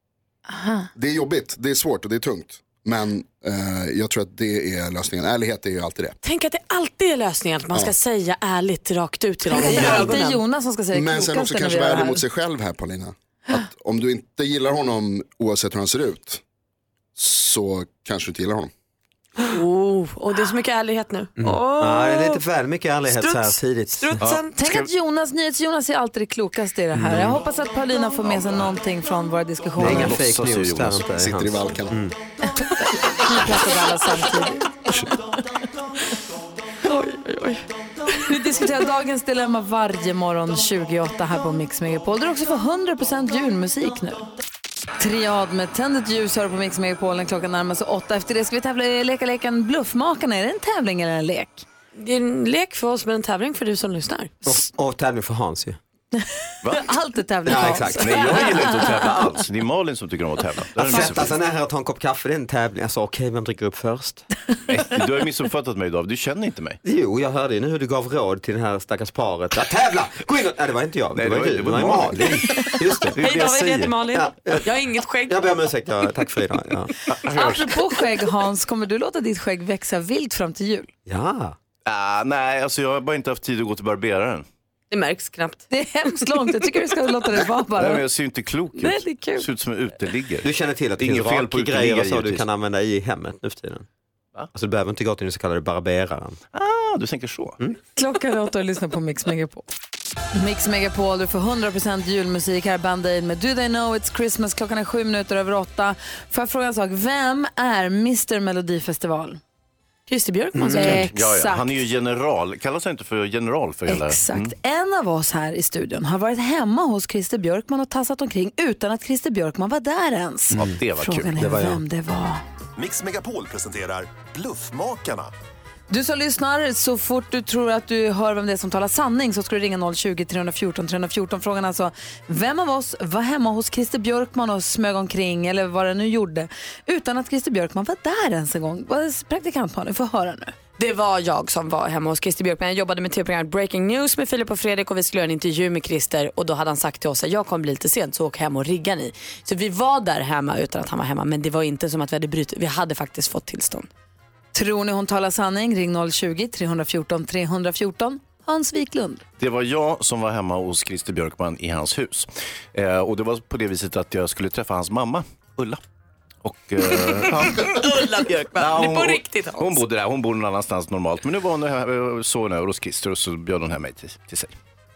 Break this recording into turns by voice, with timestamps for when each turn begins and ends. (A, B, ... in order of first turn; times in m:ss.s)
0:00.5-0:00.9 A
0:01.0-0:06.2 B
0:06.2-0:10.4 C
0:09.5-0:12.2 A
0:09.7-0:10.1 B
0:10.9-0:16.4 B
0:17.2-0:18.7 B
0:19.5-0:22.4 C
0:21.4-0:24.2 D
0:23.1-0:24.6 C
0:24.2-0:24.9 E
0:24.6-0:30.2 A
0:26.9-0:27.4 D
0:28.3-0:28.7 E
0:29.8-0:32.2 D
0:29.8-0:31.3 E
0:31.2-0:31.9 B
0:32.7-0:34.6 A
0:36.8-0:37.6 C
0:38.2-0:44.3 A
0:45.0-0:51.6 A
0:52.0-0:54.4 C
0:54.4-0:55.8 D
0:56.2-0:59.0 A
0:56.6-0:56.9 E
0:57.4-0:58.6 D
0:58.0-1:01.3 E
1:00.8-1:04.2 D
1:04.7-1:06.8 E
1:06.8-1:14.7 D
1:11.2-1:13.1 E
1:13.2-1:15.5 C
1:15.3-1:16.9 D
1:17.1-1:17.7 E
1:17.3-1:20.9 A
1:21.1-1:21.6 D
1:21.8-1:24.5 E
1:24.9-1:26.5 C
1:25.7-1:28.0 A
1:27.8-1:32.5 E
1:28.8-1:29.5 A
1:30.4-1:33.9 D
1:34.5-1:36.4 D
1:36.5-1:37.6 E
1:38.0-1:39.6 A
1:40.3-1:49.4 A
1:50.1-1:51.0 C
1:50.5-1:51.0 D
1:50.7-1:51.8 A
1:50.9-1:54.5 E
1:53.9-2:02.4 A
2:00.6-2:01.4 E
2:01.4-2:01.8 D
2:02.8-2:05.3 F
2:05.9-2:20.5 A
2:20.8-2:33.9 C
2:34.5-2:39.2 A
2:39.4-2:45.8 E
2:46.4-2:47.9 E
2:46.9-2:49.8 C
2:48.6-2:54.5 E